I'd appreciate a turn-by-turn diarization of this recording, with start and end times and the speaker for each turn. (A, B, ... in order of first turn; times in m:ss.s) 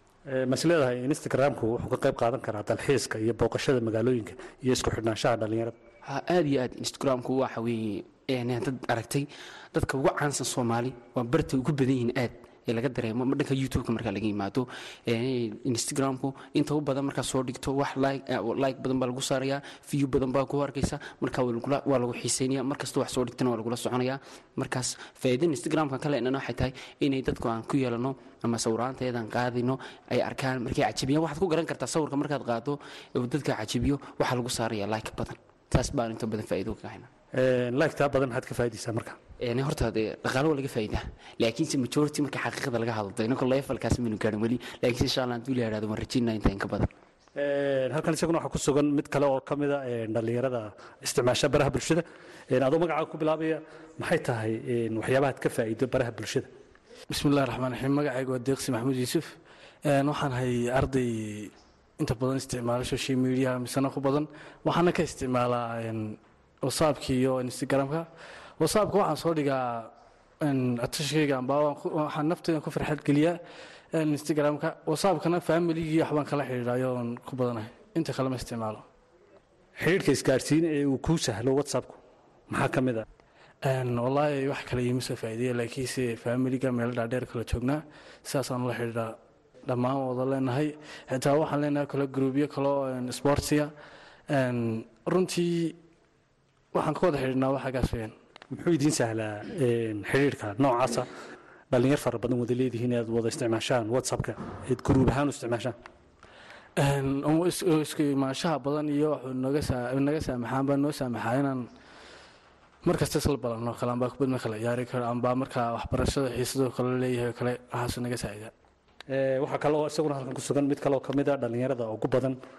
0:00.3-0:05.8 A
0:06.1-0:37.1 B
0:37.4-0:39.2 A
0:39.4-0:46.9 B
0:47.4-0:56.5 A
0:57.1-0:59.4 C
0:59.9-1:08.1 C
1:08.6-1:13.4 C
1:14.0-1:18.9 C
1:19.8-1:23.0 A
1:23.6-1:33.7 C
1:34.3-1:35.8 C
1:36.7-1:38.2 C
1:38.5-1:41.1 A
1:41.7-1:45.8 A
1:46.8-1:51.7 C
1:52.8-1:58.5 C
1:59.1-2:02.4 A